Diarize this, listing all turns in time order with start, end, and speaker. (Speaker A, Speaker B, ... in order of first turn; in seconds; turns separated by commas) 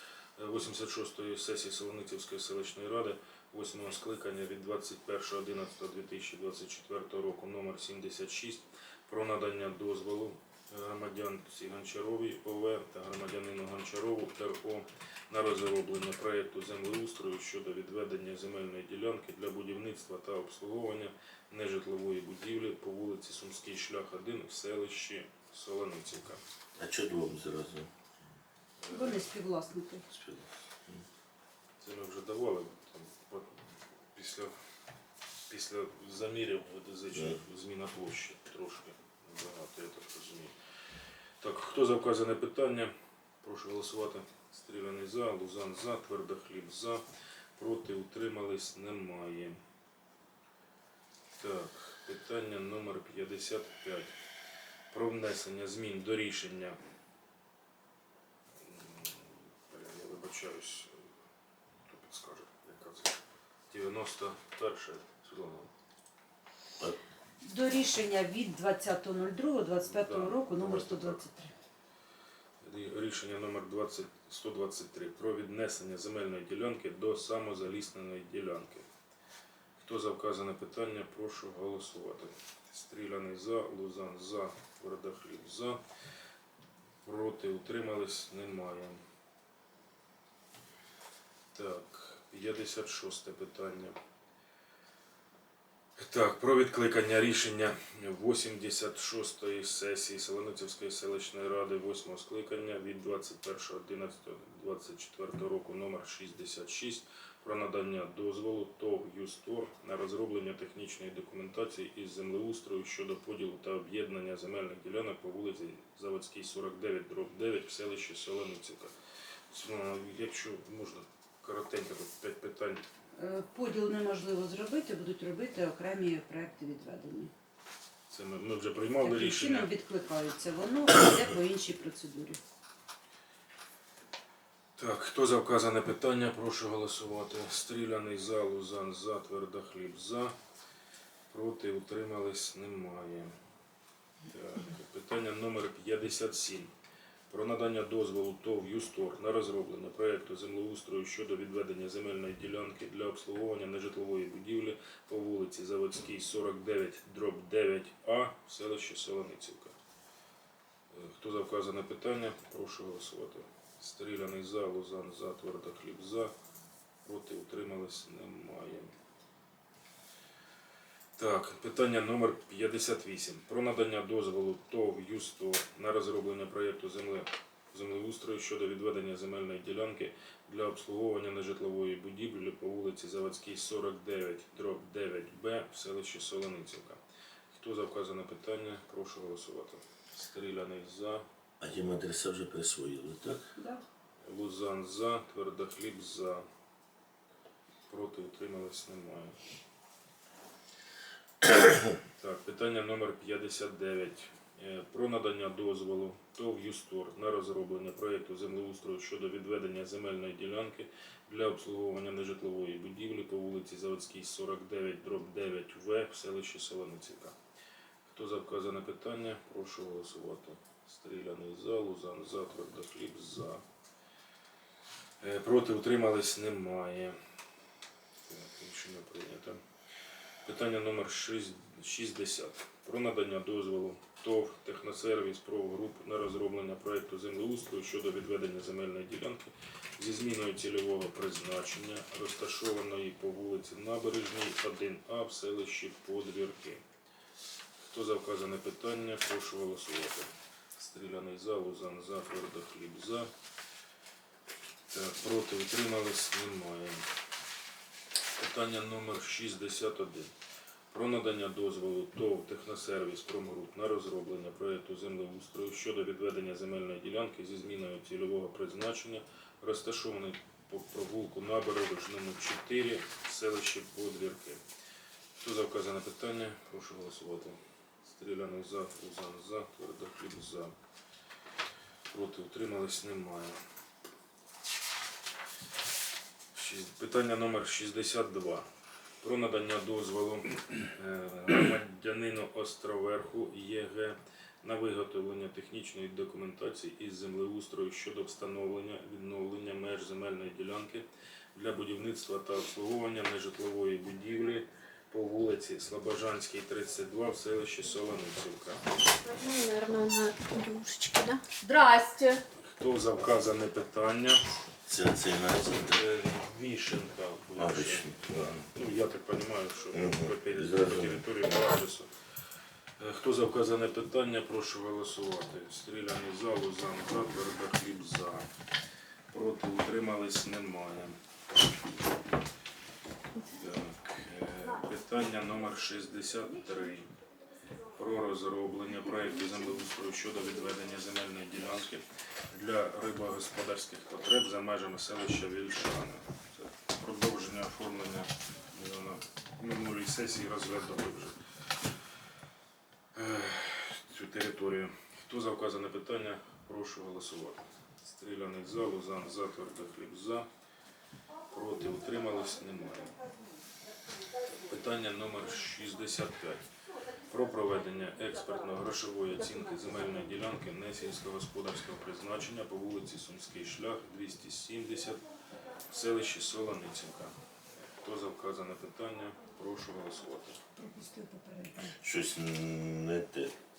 Speaker A: 0.4-26.4, Speaker B: 26.8-27.9, Speaker A: 28.8-29.3, Speaker C: 28.9-30.1, Speaker B: 30.1-31.0, Speaker A: 31.8-34.5, Speaker A: 35.5-40.5, Speaker A: 41.4-47.0, Speaker A: 47.6-49.6, Speaker A: 51.4-54.1, Speaker A: 54.9-56.8, Speaker A: 58.6-61.0, Speaker A: 61.8-63.2, Speaker A: 63.7-65.7, Speaker C: 67.4-71.5, Speaker A: 69.8-71.2, Speaker A: 72.6-78.9, Speaker A: 79.8-85.8, Speaker A: 87.0-89.0, Speaker A: 91.5-94.0, Speaker A: 96.0-118.9, Speaker A: 119.5-122.8, Speaker C: 123.2-127.3, Speaker A: 128.1-129.7, Speaker C: 129.0-132.4, Speaker A: 134.8-140.3, Speaker A: 141.3-143.3, Speaker A: 144.3-146.7, Speaker A: 147.3-159.8, Speaker A: 160.9-166.3, Speaker A: 167.0-168.9, Speaker A: 171.2-187.0, Speaker A: 187.5-191.2, Speaker B: 191.6-193.5, Speaker C: 193.6-193.8, Speaker A: 194.2-196.4, Speaker A: 197.9-199.4, Speaker A: 202.2-217.4, Speaker A: 218.1-223.6, Speaker A: 225.2-227.2, Speaker A: 228.3-229.6, Speaker A: 230.4-246.8, Speaker A: 247.8-253.3, Speaker A: 254.9-257.1, Speaker A: 258.4-260.3, Speaker A: 260.9-274.6, Speaker A: 275.4-280.7, Speaker A: 282.1-283.6, Speaker A: 286.5-288.7, Speaker A: 289.2-308.9, Speaker D: 309.2-312.4, Speaker A: 312.5-314.4, Speaker B: 314.9-316.0, Speaker A: 315.6-322.1, Speaker B: 317.6-318.6, Speaker B: 319.9-321.4, Speaker A: 323.0-328.5, Speaker A: 329.3-331.2, Speaker A: 333.6-337.1, Speaker A: 337.9-351.4, Speaker A: 353.1-360.5, Speaker A: 361.5-363.2, Speaker A: 364.6-366.6, Speaker A: 367.3-375.2, Speaker A: 375.9-380.6, Speaker C: 380.7-382.0, Speaker B: 381.9-383.5